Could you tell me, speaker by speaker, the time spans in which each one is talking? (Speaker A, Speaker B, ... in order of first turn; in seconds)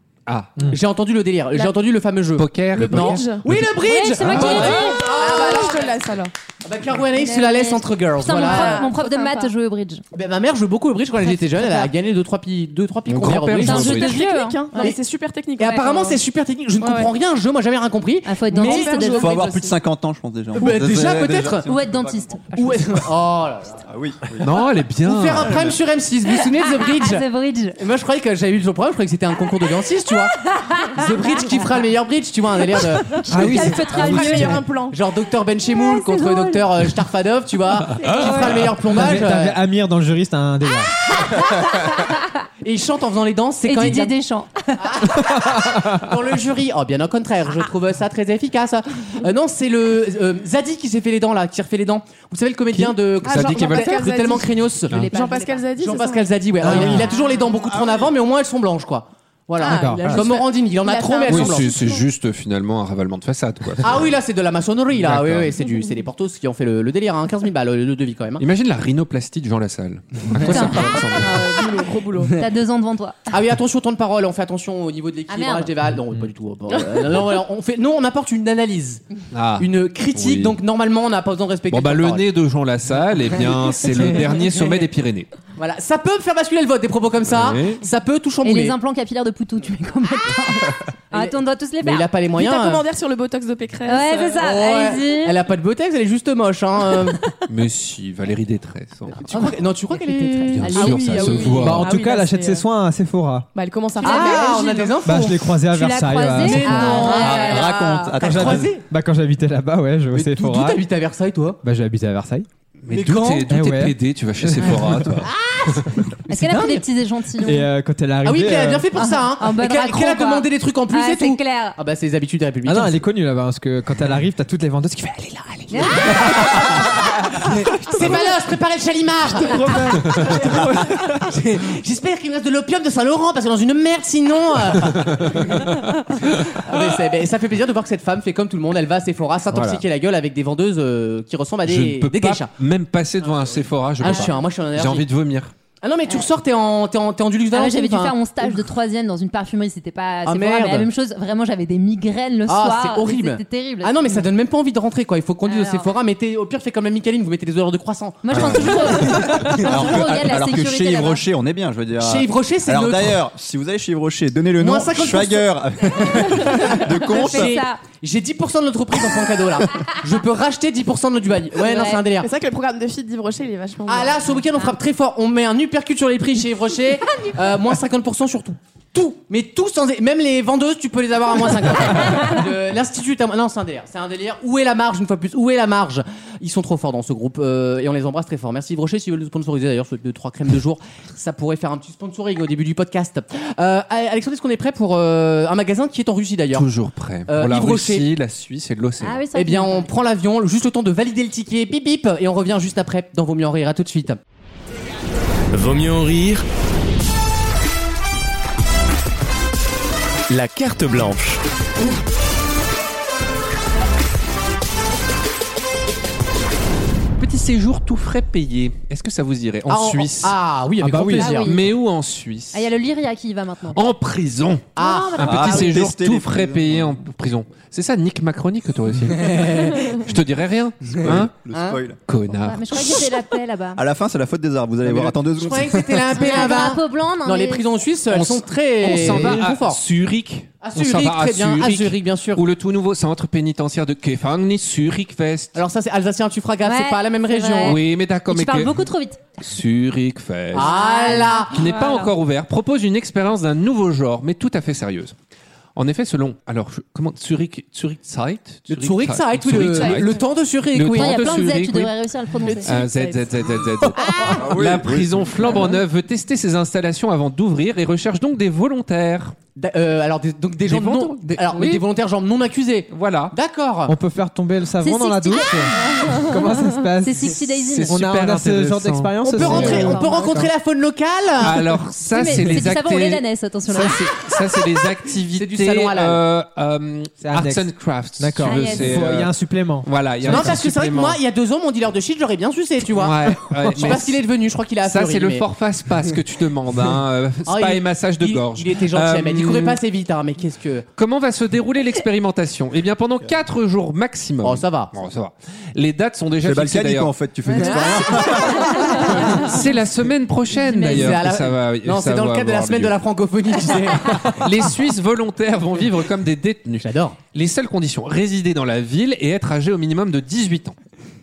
Speaker A: 0.3-0.6, 2.4-3.4, 13.1-14.2, 24.4-25.6, 52.7-54.1, 61.3-64.1, 65.0-65.5, 68.4-71.3, 79.3-80.6, 81.7-85.3, 87.3-87.8, 97.5-99.2, 100.5-101.9, 112.8-115.8, 135.3-135.9, 139.5-139.8, 141.7-145.5, 196.5-199.2, 217.2-220.3, 221.4-222.7, 223.8-231.3, 232.1-232.8, 238.1-245.6, 247.6-248.8, 249.4-255.1, 255.8-260.2, 260.7-261.9, 262.6-269.4, 270.7-271.8, 272.9-273.3, 277.6-279.1, 281.4-289.3, 289.8-291.2, 292.9-294.2, 294.8-299.8, 301.0-307.1, 309.2-313.0, 314.4-320.8
Speaker B: 0.7-6.0, 6.6-8.9, 10.1-14.1, 15.6-19.4, 20.6-21.7, 22.6-23.8, 25.0-27.2, 27.8-33.2, 34.0-39.6, 42.6-44.1, 44.8-55.0, 55.8-61.7, 63.8-68.4, 70.5-70.8, 73.3-79.0, 79.6-82.2, 83.4-84.8, 85.6-88.8, 91.1-92.8, 94.4-97.2, 99.2-101.3, 104.0-105.6, 106.4-108.8, 110.1-111.6, 112.9-113.5, 115.2-116.8, 118.2-123.0, 126.1-126.8, 127.4-142.5, 144.0-145.1, 145.8-148.7, 150.3-150.9, 152.5-159.9, 162.0-163.2, 164.6-172.3, 173.9-196.7, 197.3-198.1, 199.3-204.2, 219.7-221.5, 224.8-225.8, 229.2-230.0, 231.1-231.8, 234.8-239.8, 240.6-242.4, 245.6-247.8, 250.5-251.6, 258.7-261.5, 269.6-273.9, 279.2-281.6, 285.4-286.2, 290.3-295.4, 297.5-300.9, 304.4-304.9, 307.6-307.9, 309.0-309.5, 310.6-314.4, 316.8-317.2
Speaker C: 2.9-3.5, 4.3-6.3, 8.3-9.5, 13.7-16.2, 16.8-17.1, 18.5-19.6, 33.4-35.0, 53.2-56.4, 59.6-62.0, 71.1-72.3, 76.7-77.0, 92.3-94.4, 100.7-102.7, 103.5-105.0, 106.8-108.2, 172.2-174.2, 262.4-263.4, 264.0-264.4
Speaker D: 3.8-5.1, 7.2-10.0, 13.6-14.9, 18.2-19.6, 21.7-23.0, 26.5-27.8, 30.6-30.9, 33.2-34.6, 35.7-36.7, 38.0-38.7, 43.6-45.1, 54.9-55.7, 56.9-57.5, 70.4-71.6, 72.3-73.2, 75.3-75.7, 88.4-92.1, 93.8-95.4, 99.3-101.5, 104.0-104.6, 105.7-107.7, 116.3-117.7, 119.0-121.8, 125.7-126.6, 147.5-154.3, 155.4-155.9, 158.2-161.2, 166.6-167.8, 171.7-172.0, 199.0-199.9, 221.2-221.7, 222.5-223.8, 224.8-225.8, 232.4-233.8, 236.1-237.6, 246.6-249.2, 250.6-252.1, 260.9-262.7, 274.8-276.1, 277.0-278.0, 279.4-280.2, 282.1-284.1, 288.4-289.0, 307.6-309.4, 310.8-311.1
Speaker E: 19.2-22.5, 23.9-24.6, 25.4-25.8, 57.6-58.1, 107.1-108.8, 158.3-167.6, 225.2-226.8, 231.0-232.0, 233.8-236.2, 264.4-265.3, 306.4-309.1
Speaker F: 33.3-34.6, 38.9-40.9, 56.6-57.0, 59.7-60.2, 101.5-103.5, 105.0-107.1, 108.2-110.8, 111.6-112.5, 113.5-115.2, 117.4-118.9, 122.7-126.6, 129.5-130.2, 220.8-221.4, 238.9-239.4, 273.9-280.5, 287.2-290.6
Speaker G: 205.5-206.4, 210.3-211.4